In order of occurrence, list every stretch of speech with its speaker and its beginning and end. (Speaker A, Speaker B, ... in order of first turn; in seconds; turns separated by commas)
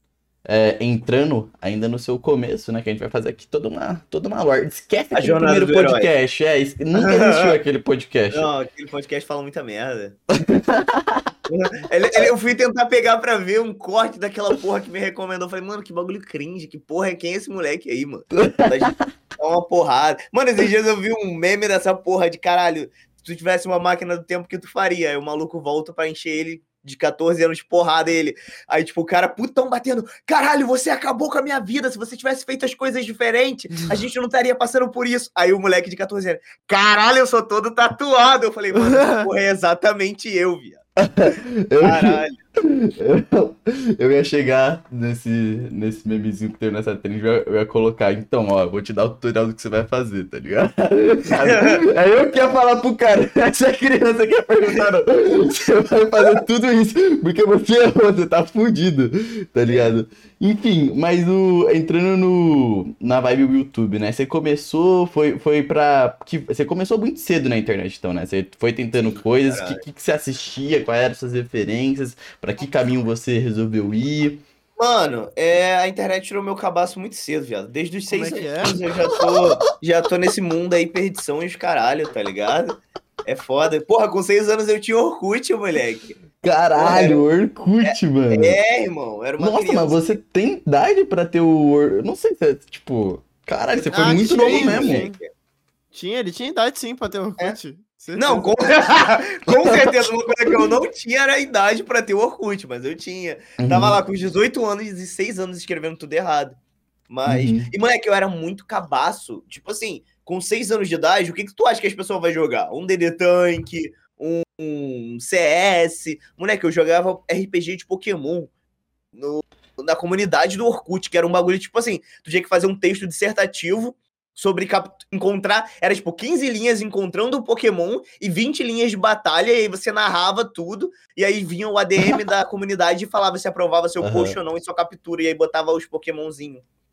Speaker A: 0.5-8.5, Speaker B: 5.1-6.1, Speaker B: 6.9-7.5, Speaker B: 8.3-10.2, Speaker A: 10.3-11.3, Speaker B: 11.5-40.8, Speaker A: 18.3-18.9, Speaker C: 38.7-39.3, Speaker A: 41.0-74.4, Speaker B: 41.8-42.4, Speaker B: 51.4-51.8, Speaker B: 59.7-59.9, Speaker B: 69.5-69.8, Speaker B: 74.8-86.2, Speaker C: 78.1-78.8, Speaker A: 79.1-79.4, Speaker A: 86.4-88.6, Speaker B: 86.8-87.2, Speaker B: 87.8-90.1, Speaker A: 89.4-95.0, Speaker B: 93.7-95.3, Speaker C: 93.9-95.2, Speaker C: 95.9-98.5, Speaker B: 98.2-106.5, Speaker A: 99.6-100.0, Speaker A: 103.6-104.0, Speaker B: 107.1-118.5, Speaker A: 107.3-107.7, Speaker B: 119.2-136.6, Speaker A: 134.0-134.4